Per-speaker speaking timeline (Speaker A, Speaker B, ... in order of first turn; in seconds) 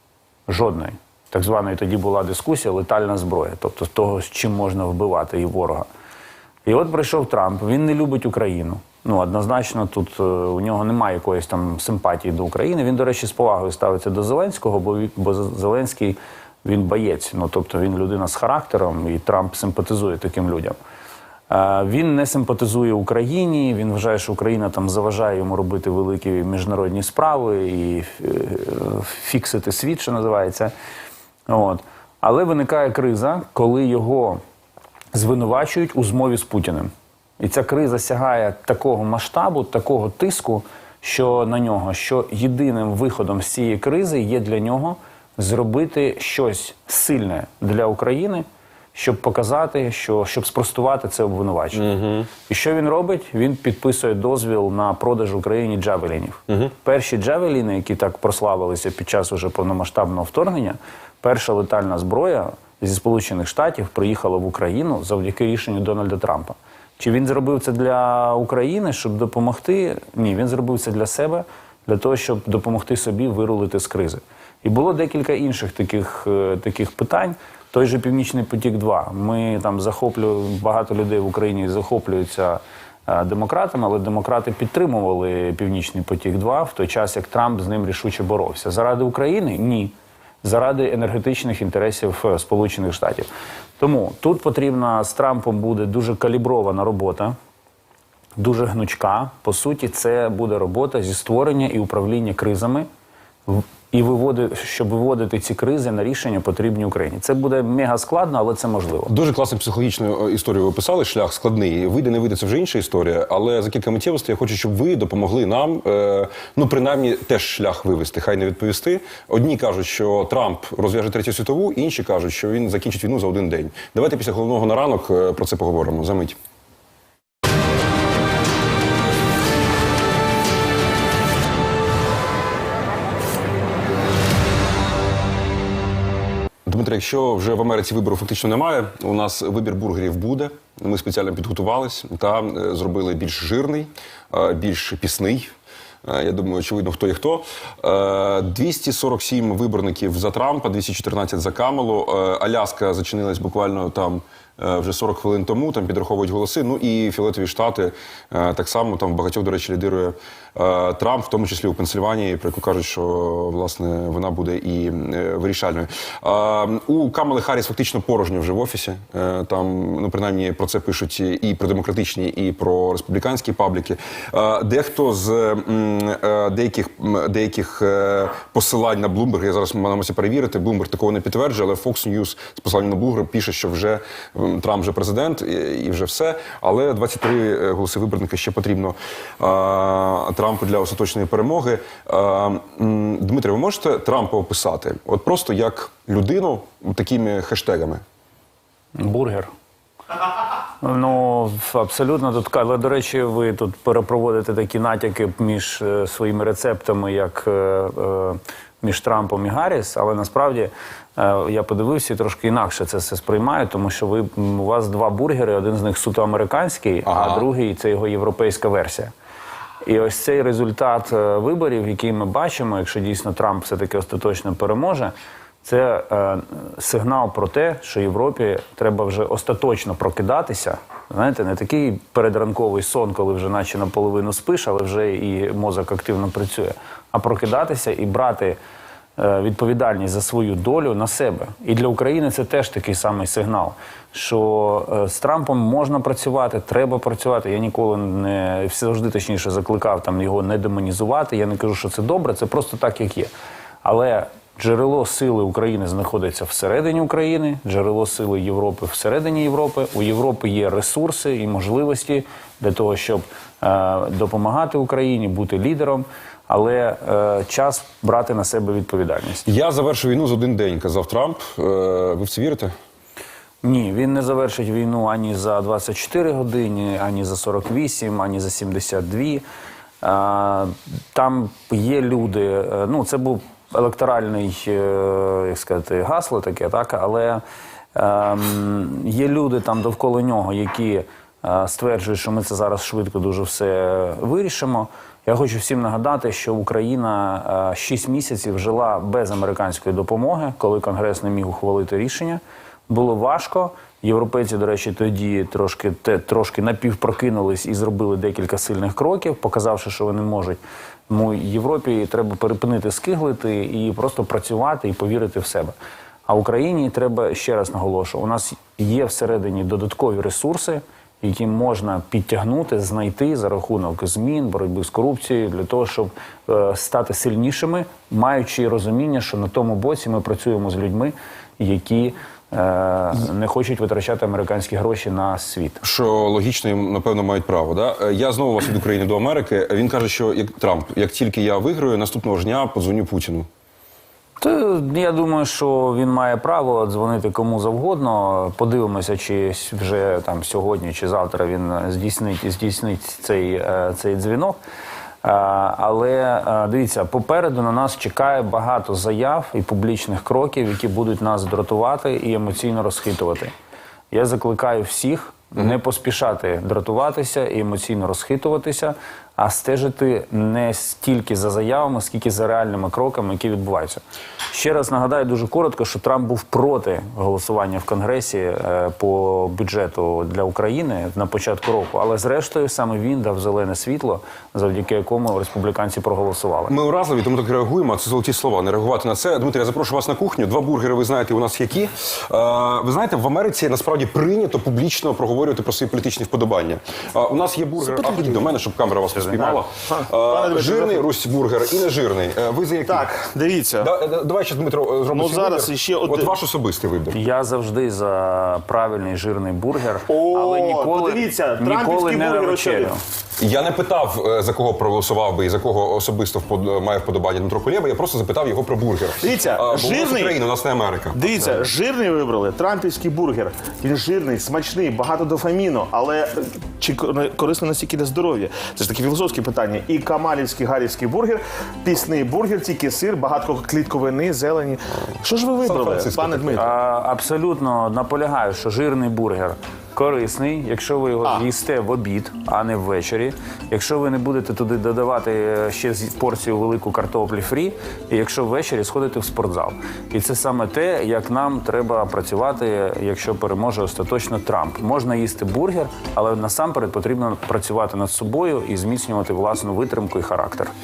Speaker A: 0.5-5.9, 6.6-20.8, 21.5-30.7, 31.5-34.4, 35.1-93.3, 93.8-97.3, 98.4-102.9, 103.5-109.1, 198.9-199.5, 200.8-219.1, 219.8-225.1, 225.6-238.6, 239.2-253.3, 253.8-269.4, 273.6-279.4, 280.0-287.4, 287.9-315.7, 316.3-335.8, 344.4-354.6, 355.2-363.5, 364.1-386.8, 397.9-398.4, 399.1-399.6, 407.1-413.0, 436.5-460.7
Speaker B: 51.7-52.3, 109.1-126.4, 136.7-145.5, 146.0-198.0, 217.1-217.4, 269.4-272.7, 335.8-343.5, 386.7-403.1, 403.8-407.2, 413.4-421.5, 435.6-436.7
Speaker C: 399.9-401.0, 402.9-403.9, 405.1-406.3, 410.1-412.9, 419.2-420.4, 421.1-436.7